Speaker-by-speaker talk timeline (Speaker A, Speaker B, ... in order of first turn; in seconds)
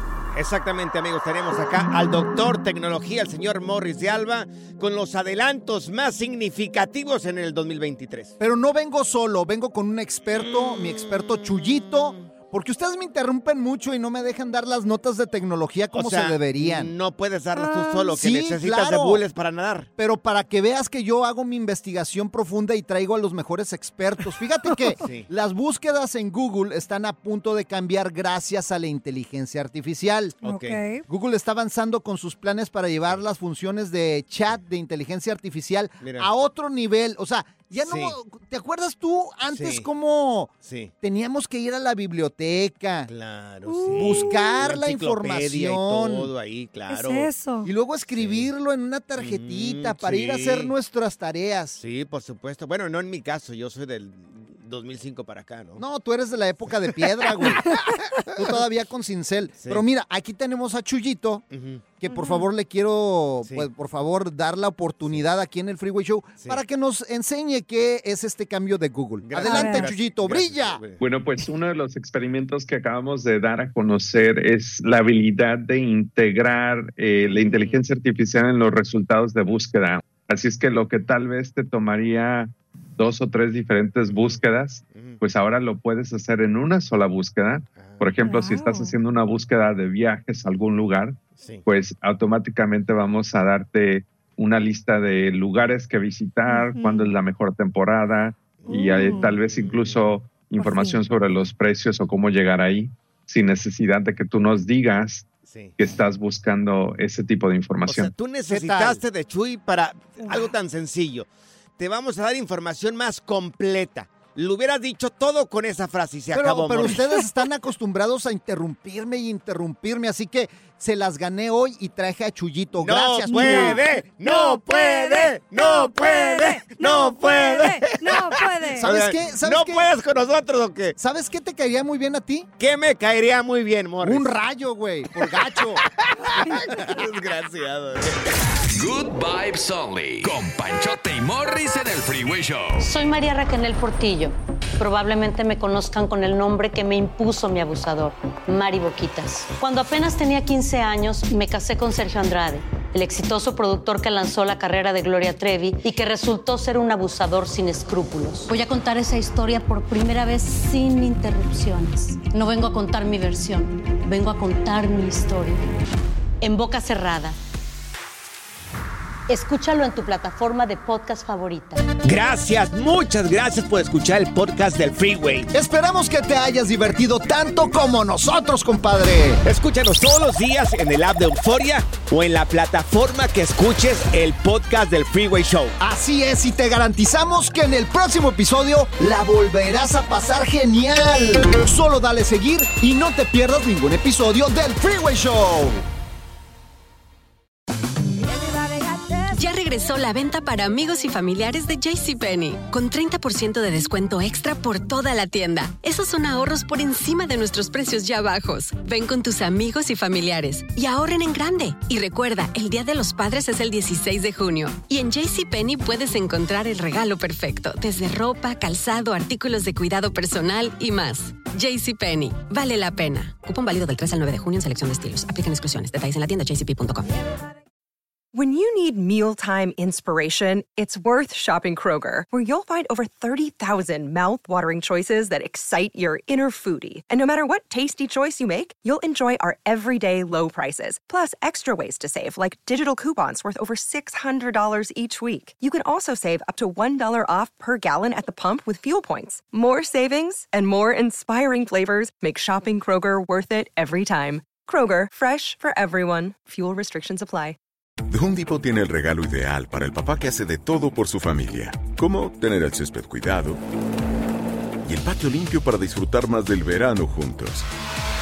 Speaker A: 0.3-8.3, 10.3-10.9, 15.9-19.9, 25.0-25.3, 30.4-30.8, 36.0-36.3, 37.8-38.1, 39.5-39.9, 40.6-40.9, 43.1-47.3, 48.1-48.5, 49.2-50.7, 51.8-55.8, 56.7-57.6, 58.3-58.6, 59.6-59.8, 61.5-61.9, 69.2-71.0, 77.2-77.8, 84.1-85.2, 87.8-88.1, 91.4-91.6, 98.6-100.2, 105.5-105.8, 107.9-111.3, 111.8-117.2, 122.8-131.0, 132.6-134.3, 135.2-138.3, 172.0-175.5, 179.4-185.8
Speaker B: 8.4-16.9, 18.1-19.2, 20.0-30.3, 31.1-43.1, 44.0-46.3, 47.6-51.8, 55.8-61.4, 62.0-70.8, 108.5-109.0, 116.3-123.8, 128.8-129.9, 131.0-132.5, 134.0-135.8, 175.5-179.4, 185.8-195.8
Speaker C: 17.5-18.1, 30.4-31.0, 43.6-44.6, 46.9-47.7, 57.5-57.8, 62.1-62.5, 69.4-69.9, 88.2-89.0, 96.5-97.1, 98.7-99.4, 100.6-101.0, 110.2-110.5, 123.3-128.9, 198.5-199.2
Speaker D: 71.0-108.1
Speaker E: 138.6-142.9
Speaker F: 142.8-165.6, 166.4-167.3, 169.3-171.8
Speaker G: 199.3-227.1
Speaker H: 228.3-257.6
Speaker I: 258.1-263.6, 264.8-267.7